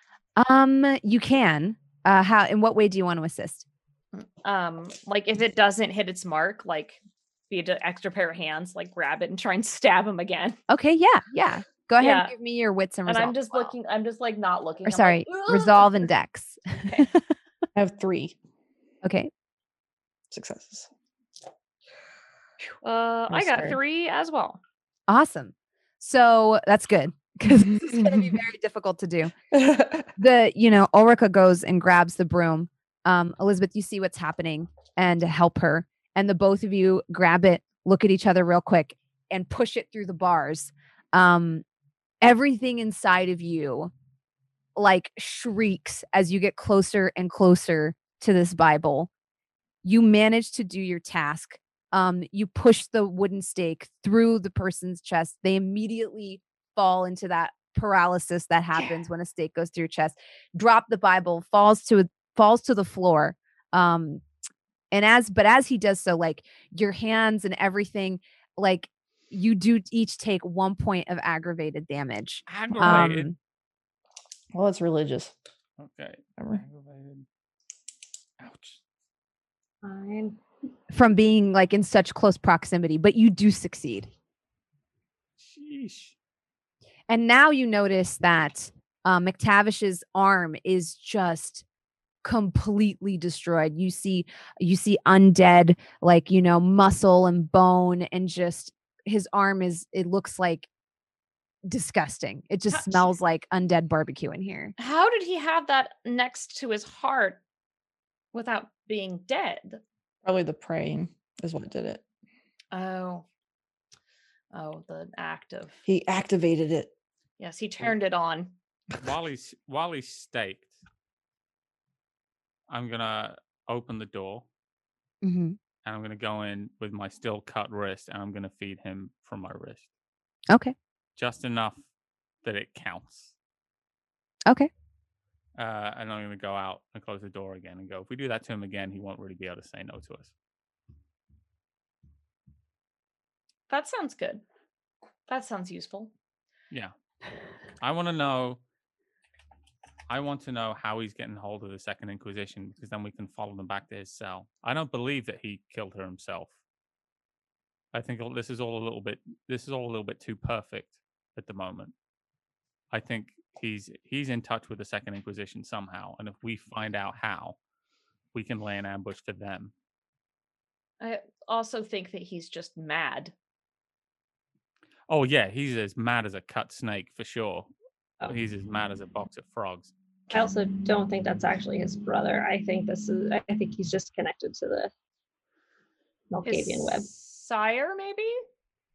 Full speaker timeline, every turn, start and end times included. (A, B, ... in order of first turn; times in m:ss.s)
0:00.4-0:03.6 A
0:04.4-0:07.0 B
0:07.5-0:10.6 B
0:10.7-0:13.7 A
0:12.0-0:12.3 B
0:13.1-0:16.1 B
0:14.9-0:17.2 A
0:17.7-0:18.4 C
0:19.0-0:19.3 A
0:20.3-0:20.9 C
0:22.8-0:24.6 B
0:23.3-0:23.8 C
0:25.1-0:29.3 A
0:27.7-0:28.4 C
0:29.5-0:30.1 C
0:30.2-0:41.6 A
0:42.2-0:43.9 A
0:44.8-0:49.1 A
0:49.8-1:04.2 A
1:04.9-1:13.4 A
1:12.5-1:13.3 D
1:12.8-1:13.1 C
1:14.5-1:15.3 C
1:15.8-1:17.2 D
1:18.4-1:18.8 D
1:19.8-1:20.4 E
1:20.9-1:24.1 A
1:25.4-1:26.1 D
1:27.1-1:31.6 A
1:32.2-1:40.7 A
1:41.6-1:44.7 A
1:42.7-1:43.1 B
1:44.8-1:47.4 B
1:48.3-1:49.8 B
1:50.2-1:52.0 C
1:52.7-1:53.2 B
1:54.5-1:55.8 B
1:55.8-1:56.9 C
1:57.4-1:58.5 B
1:59.0-2:00.7 D
2:02.7-2:04.4 D
2:05.2-2:05.6 A
2:05.8-2:09.9 D
2:10.5-2:10.8 A
2:11.2-2:11.8 D
2:12.4-2:13.3 D
2:15.6-2:20.3 D
2:23.7-2:24.4 B
2:25.3-2:26.1 B
2:27.8-2:28.6 D
2:30.1-2:36.6 D
2:37.9-2:41.9 D
2:42.9-2:47.6 D
2:48.3-2:49.7 D
2:51.0-2:53.3 B
2:55.1-2:57.7 D
2:58.3-2:59.9 D
3:00.3-3:04.9 E
3:06.3-3:07.1 E
3:06.4-3:08.4 B